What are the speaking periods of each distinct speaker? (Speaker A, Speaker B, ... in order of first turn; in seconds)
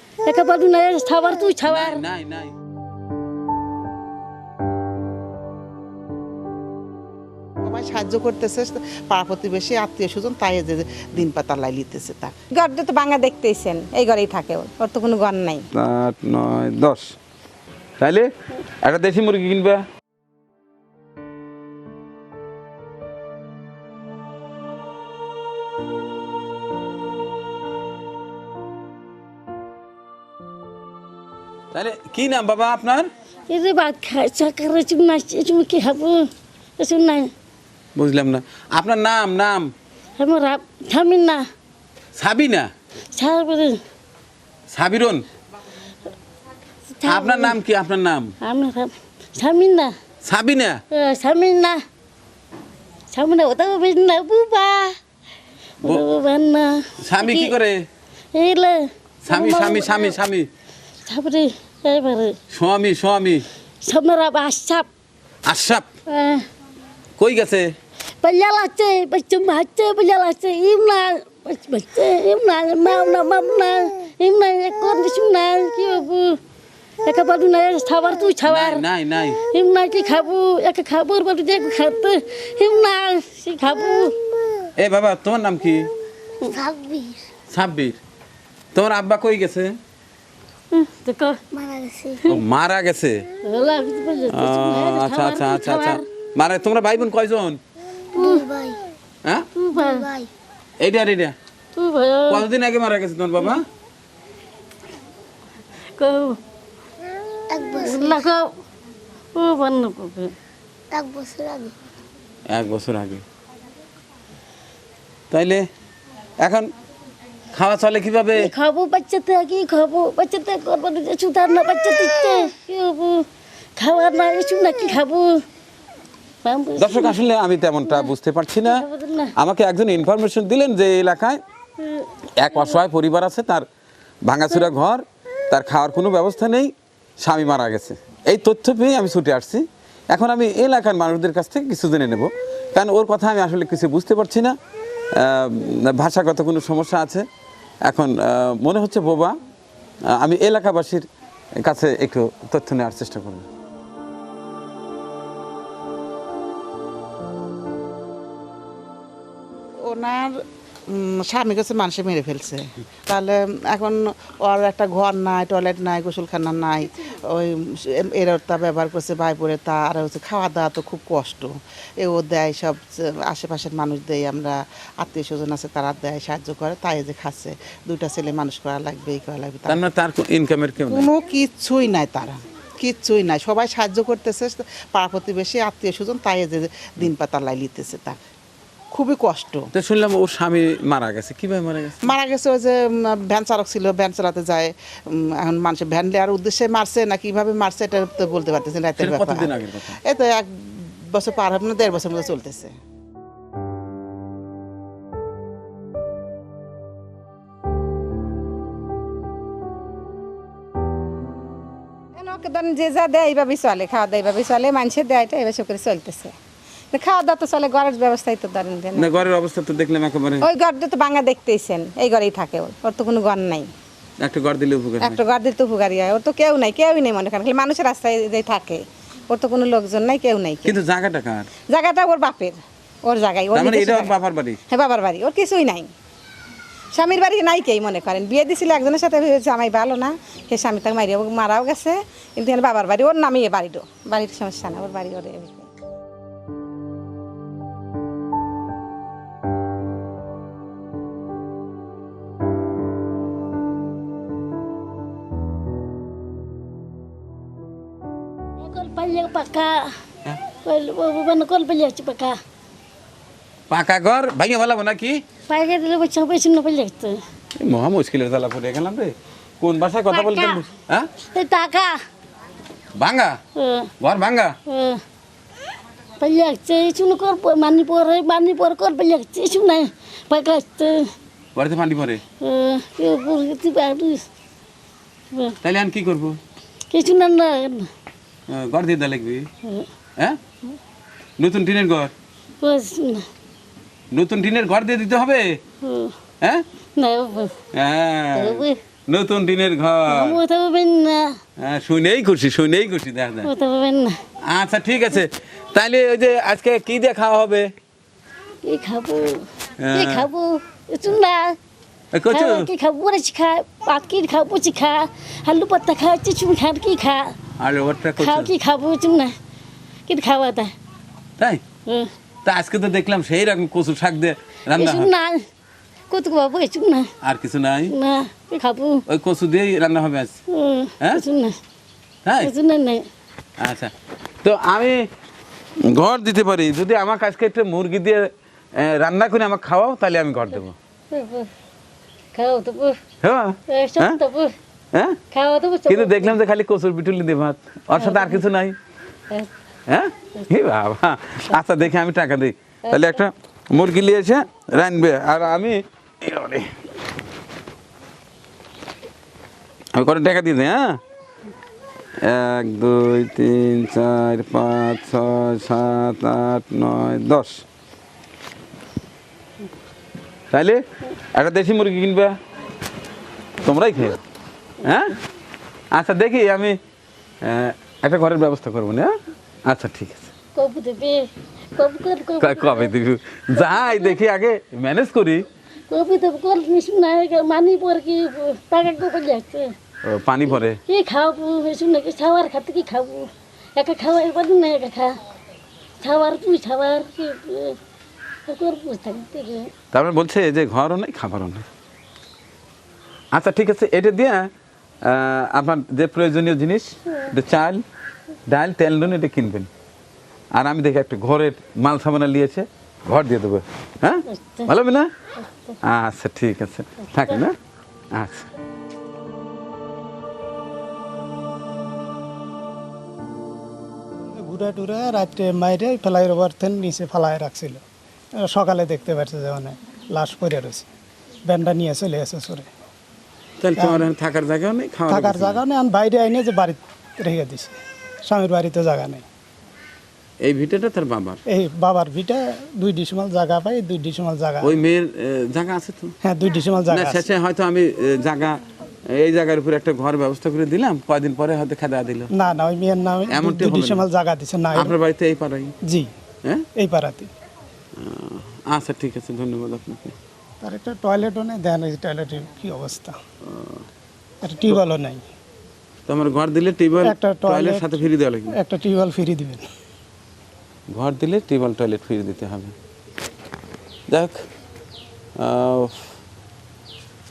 Speaker A: 0.2-2.0, 33.5-37.3, 40.2-41.4, 43.1-43.8, 47.0-47.5, 48.4-49.9, 50.9-51.8, 53.1-55.0, 55.8-57.5, 58.3-60.2, 61.0-62.4, 63.8-64.9, 66.1-66.4, 68.2-76.4, 77.0-78.8, 79.4-84.2, 90.7-91.4, 93.4-96.0, 98.1-98.5, 99.5-100.2, 101.8-102.4, 105.9-106.4, 107.7-108.5, 109.3-110.3, 118.4-125.4, 126.4-127.2, 128.6-129.3, 131.8-132.5, 258.6-259.9, 260.6-262.4, 265.5-267.2, 270.1-270.6, 271.3-272.0, 273.6-273.9, 274.7-275.0, 276.2-281.1, 282.4-284.2, 285.3-285.6, 286.9-287.9, 292.6-293.3, 295.8-296.1, 296.9-297.5, 298.3-298.8, 300.1-301.4, 303.4-304.1, 308.6-311.6, 312.3-317.4, 318.2-319.3, 320.1-320.7, 321.9-322.1, 324.7-325.4, 326.1-327.1, 327.9-329.0, 330.5-331.6, 332.4-333.1, 341.1-341.5, 342.3-343.0, 343.7-344.5, 345.3-346.4, 347.9-348.4, 352.9-353.2, 380.5-382.9, 383.6-384.1, 385.9-389.7, 390.9-395.2, 396.0-397.8, 398.4-399.7, 414.3-414.7
Speaker B: 1.7-2.5, 15.7-17.1, 18.0-18.3, 18.8-19.8, 31.7-33.1, 38.0-39.7, 42.1-42.7, 44.7-45.2, 47.0-48.3, 50.2-50.8, 57.0-57.9, 59.2-60.5, 62.5-63.5, 65.4-65.9, 67.2-67.7, 78.5-79.4, 84.8-85.9, 87.5-88.0, 88.7-89.8, 92.3-93.2, 94.3-97.6, 100.8-101.3, 102.3-103.6, 112.5-113.2, 115.3-115.7, 116.4-116.7, 117.5-118.5, 126.8-128.8, 129.4-131.4, 132.4-133.7, 134.2-144.6, 145.2-147.2, 147.8-149.3, 150.1-151.1, 151.6-153.4, 179.7-181.1, 189.7-192.1, 199.0-199.9, 218.9-220.5, 224.2-225.2, 230.6-231.5, 233.5-234.6, 263.7-265.2, 267.6-271.1, 272.9-273.4, 274.0-274.6, 281.5-282.2, 285.6-286.4, 288.5-289.5, 291.4-292.1, 294.1-295.6, 297.7-300.4, 301.6-303.5, 304.4-307.7, 309.8-310.3, 312.1-312.7, 317.6-318.5, 321.4-321.6, 322.4-325.1, 327.2-327.9, 329.1-330.4, 332.2-332.5, 333.6-333.9, 334.4-335.1, 335.8-340.8, 343.2-344.2, 344.9-345.2, 345.9-348.7, 349.9-356.7, 359.9-361.0, 362.2-367.6, 370.5-370.8, 371.3-372.4, 373.6-374.2, 374.8-375.1, 375.9-376.8, 377.4-379.1, 379.6-380.3, 382.4-385.5, 390.0-390.8, 399.9-401.6, 403.3-404.5, 405.0-407.8, 408.5-409.7, 410.5-415.1, 415.8-417.5, 418.1-418.5, 433.6-435.6, 440.4-441.4, 444.6-446.1, 446.9-452.3, 453.3-454.0, 454.7-455.7, 458.0-460.1, 463.4-463.8, 466.1-468.5, 470.9-472.7, 474.1-474.4, 475.4-476.1
Speaker C: 7.6-12.3, 159.8-160.3, 160.9-179.8, 180.8-188.2, 188.9-189.7, 192.0-202.7
Speaker D: 12.5-15.7, 212.2-216.3, 216.9-219.2, 220.4-223.7, 225.0-230.8, 231.7-234.1, 234.7-235.9, 236.9-245.7
Speaker E: 86.5-87.2, 91.5-92.2, 98.2-98.8, 99.9-100.3, 107.5-108.2, 110.9-111.7
Speaker F: 424.4-427.8, 428.4-430.9, 431.4-432.7, 433.8-434.0, 435.1-439.2, 441.4-444.8, 446.2-447.2, 452.3-454.9, 455.8-456.1, 456.8-457.3, 460.6-463.1, 464.4-465.2, 467.0-469.6